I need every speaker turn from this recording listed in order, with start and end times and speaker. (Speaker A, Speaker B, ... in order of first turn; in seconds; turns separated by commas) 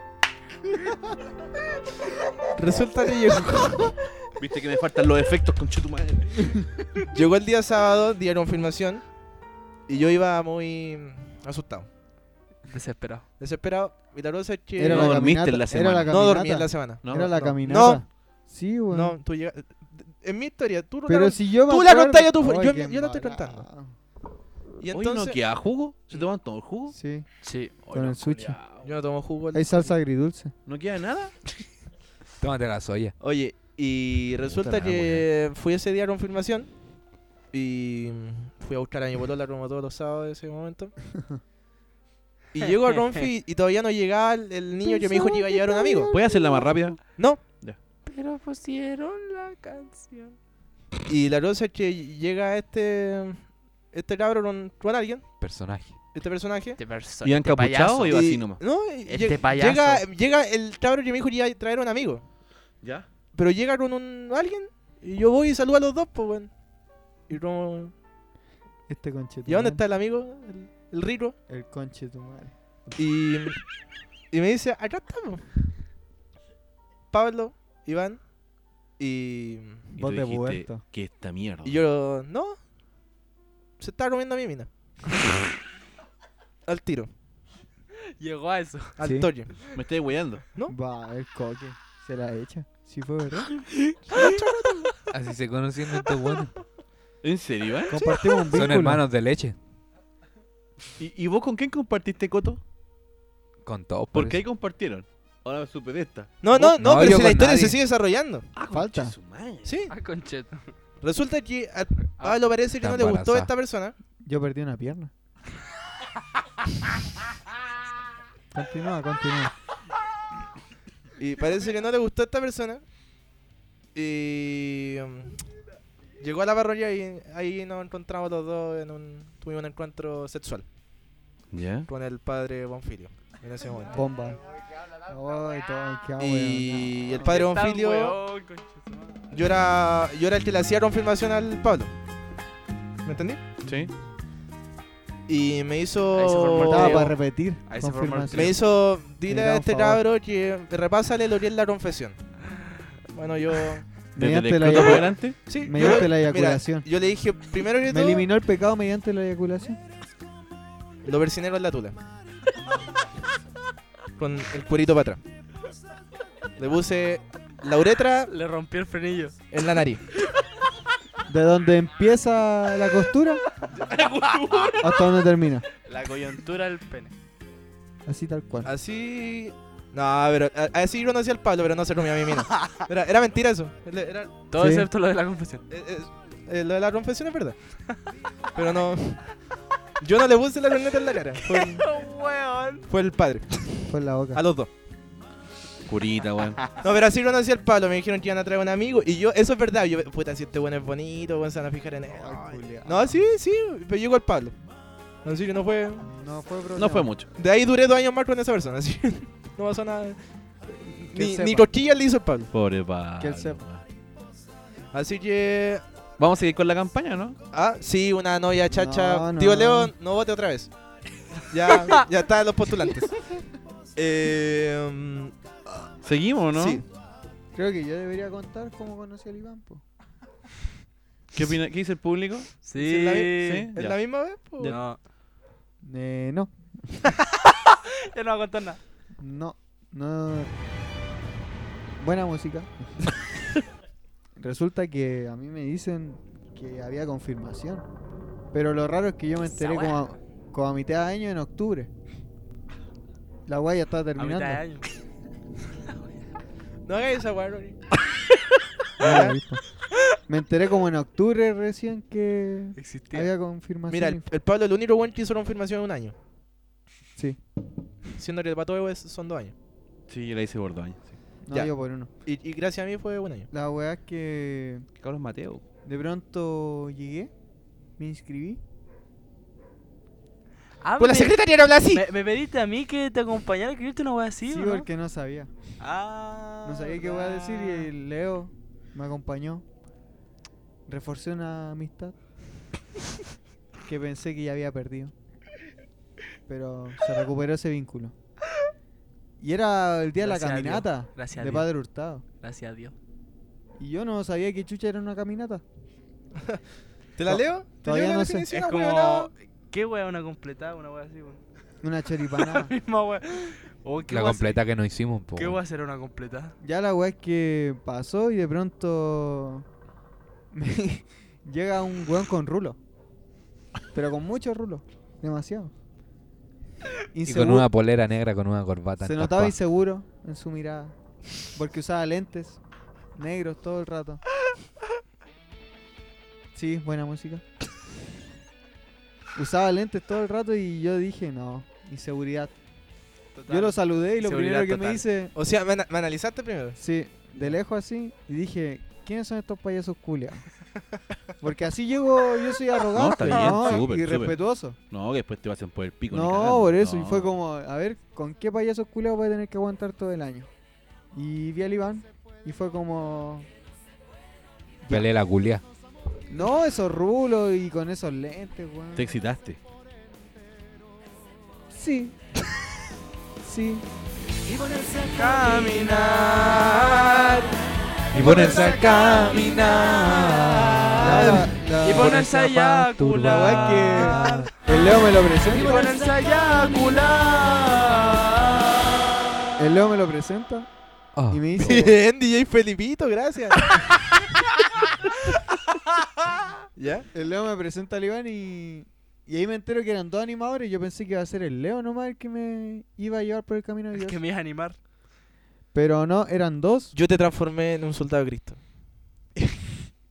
Speaker A: 2.5-3.9, Speaker B: 4.4-6.7, Speaker A: 7.1-9.1, Speaker A: 9.9-11.9, Speaker C: 12.7-13.2, Speaker A: 13.4-15.3, Speaker D: 14.8-19.2, Speaker B: 14.8-16.2, Speaker A: 16.1-18.0, Speaker B: 17.0-17.3, Speaker A: 18.9-23.6, Speaker D: 21.1-23.9, Speaker A: 24.8-25.4, Speaker B: 24.9-26.9, Speaker D: 26.9-27.3, Speaker C: 27.4-27.8, Speaker D: 27.8-28.6, Speaker B: 27.8-28.8, Speaker A: 28.8-30.0, Speaker D: 29.5-30.5, Speaker B: 30.6-31.3, Speaker E: 32.4-33.1, Speaker A: 33.2-36.7, Speaker B: 34.5-35.2, Speaker A: 37.5-40.9, Speaker A: 42.5-46.1, Speaker C: 42.8-43.3, Speaker D: 44.8-46.5, Speaker B: 46.1-47.8, Speaker A: 47.1-47.4, Speaker C: 48.0-50.4, Speaker A: 51.1-55.5, Speaker E: 55.4-56.0, Speaker A: 56.1-56.8, Speaker C: 56.8-58.2, Speaker B: 57.2-58.6, Speaker A: 58.1-62.2, Speaker C: 59.0-60.0, Speaker A: 63.3-66.5, Speaker A: 67.3-67.9, Speaker D: 68.9-69.8, Speaker A: 69.5-71.3, Speaker D: 71.5-72.5, Speaker A: 73.0-73.6, Speaker A: 74.3-75.4, Speaker A: 77.1-78.2, Speaker A: 79.0-79.9, Speaker B: 80.0-81.8, Speaker D: 80.0-80.8, Speaker A: 81.6-82.6, Speaker A: 83.8-84.7, Speaker A: 86.7-87.1, Speaker C: 88.2-89.0, Speaker A: 89.0-89.5, Speaker B: 89.7-90.4, Speaker D: 90.7-93.5, Speaker A: 94.1-94.9, Speaker E: 95.1-96.5, Speaker B: 97.2-97.9, Speaker D: 97.9-99.0, Speaker E: 98.5-99.5, Speaker B: 101.0-102.6, Speaker E: 103.6-104.4, Speaker B: 104.1-106.3, Speaker A: 106.4-108.5, Speaker E: 106.5-107.8, Speaker B: 108.5-109.7, Speaker D: 108.7-109.2, Speaker A: 109.6-109.9, Speaker C: 109.9-110.7, Speaker A: 111.0-113.9, Speaker E: 112.8-113.5, Speaker D: 114.2-115.1, Speaker D: 118.5-119.5, Speaker A: 121.2-122.8, Speaker A: 123.9-125.3, Speaker A: 126.2-130.6, Speaker B: 131.5-131.9, Speaker A: 131.9-134.0, Speaker D: 133.9-137.1, Speaker A: 136.2-138.2, Speaker C: 137.2-139.2, Speaker A: 139.3-141.9, Speaker A: 143.0-143.4, Speaker B: 143.7-143.9, Speaker A: 145.3-147.1, Speaker C: 146.1-148.6, Speaker D: 146.7-148.6, Speaker A: 148.3-152.2, Speaker D: 149.2-150.0, Speaker A: 153.1-153.8, Speaker B: 154.2-155.4, Speaker D: 154.2-156.9, Speaker A: 154.8-158.3, Speaker D: 157.9-159.8, Speaker A: 161.0-162.0, Speaker A: 164.2-165.2, Speaker A: 166.6-168.3, Speaker C: 168.3-169.3, Speaker A: 169.5-170.0, Speaker D: 171.3-173.4, Speaker C: 174.1-174.8, Speaker D: 174.8-175.7, Speaker C: 175.8-177.1, Speaker D: 178.1-178.7, Speaker A: 178.6-184.3, Speaker C: 184.5-185.6, Speaker D: 184.5-184.9, Speaker A: 185.7-187.6, Speaker A: 188.5-189.2, Speaker A: 190.0-191.8, Speaker C: 191.5-192.8, Speaker A: 192.9-194.7, Speaker D: 193.9-194.4, Speaker B: 195.9-196.6, Speaker A: 196.8-204.6, Speaker D: 202.1-203.2, Speaker A: 205.2-206.1, Speaker D: 206.0-207.1, Speaker B: 206.8-207.3, Speaker A: 207.4-210.2, Speaker A: 210.7-212.5, Speaker D: 211.1-211.7, Speaker B: 212.5-213.8, Speaker D: 213.2-213.6, Speaker A: 214.9-215.8, Speaker B: 216.2-217.4, Speaker A: 217.5-220.7, Speaker D: 218.7-219.9, Speaker A: 221.5-223.1, Speaker A: 223.9-225.3, Speaker B: 226.0-226.8, Speaker A: 226.6-226.8, Speaker D: 227.5-229.8, Speaker B: 231.3-232.6, Speaker C: 232.6-233.7, Speaker A: 232.8-234.8, Speaker B: 233.2-234.8, Speaker C: 234.6-235.0, Speaker D: 235.8-237.1, Speaker C: 238.1-238.8, Speaker D: 239.2-240.5, Speaker D: 242.0-242.9, Speaker D: 244.3-247.8, Speaker D: 248.5-251.9, Speaker C: 249.4-250.1, Speaker D: 253.5-254.6, Speaker C: 254.2-254.9, Speaker A: 256.9-257.8, Speaker A: 259.0-259.4, Speaker D: 259.0-259.6, Speaker D: 260.2-264.2, Speaker C: 262.8-263.3, Speaker A: 263.9-266.1, Speaker A: 268.2-269.5, Speaker B: 270.1-271.1, Speaker D: 271.4-272.1, Speaker A: 272.2-273.5, Speaker D: 273.5-274.9, Speaker B: 275.0-275.6, Speaker D: 275.8-277.3, Speaker D: 278.0-278.6, Speaker C: 280.8-281.4, Speaker A: 281.0-282.0, Speaker C: 281.9-284.9, Speaker D: 284.5-285.5, Speaker C: 285.8-287.9, Speaker D: 286.6-289.6, Speaker D: 290.9-292.1, Speaker D: 293.8-295.1, Speaker D: 296.5-298.1, Speaker D: 299.4-302.2, Speaker C: 300.2-301.7, Speaker C: 302.4-302.9, Speaker D: 303.8-305.6, Speaker A: 307.1-309.3, Speaker D: 307.3-308.5, Speaker C: 308.5-311.4, Speaker D: 311.8-312.7, Speaker C: 312.4-314.6, Speaker E: 314.1-315.6, Speaker C: 315.3-316.5, Speaker D: 316.6-319.6, Speaker D: 320.5-322.8, Speaker D: 323.9-325.7, Speaker D: 327.1-327.7, Speaker E: 327.2-329.5, Speaker D: 329.0-332.6, Speaker D: 333.1-334.2, Speaker D: 336.5-337.4, Speaker D: 339.3-342.5, Speaker D: 343.5-345.3, Speaker C: 344.2-345.0, Speaker A: 345.3-346.8, Speaker D: 346.8-350.5, Speaker D: 351.4-354.8, Speaker B: 352.9-354.4, Speaker B: 354.9-357.3, Speaker D: 356.1-360.5, Speaker D: 361.1-363.5, Speaker E: 364.9-365.6, Speaker D: 366.3-369.1, Speaker B: 368.9-369.6, Speaker D: 371.7-372.1, Speaker D: 373.4-373.8, Speaker C: 374.5-377.6, Speaker E: 378.1-380.7, Speaker C: 378.1-384.5, Speaker D: 381.0-385.9, Speaker C: 385.4-388.7, Speaker D: 389.6-390.7, Speaker E: 391.1-391.4, Speaker D: 391.3-392.0, Speaker A: 391.6-393.9, Speaker A: 396.8-397.1, Speaker D: 397.1-404.2, Speaker C: 403.9-404.8, Speaker D: 405.7-406.9, Speaker A: 406.9-408.6, Speaker D: 409.4-409.6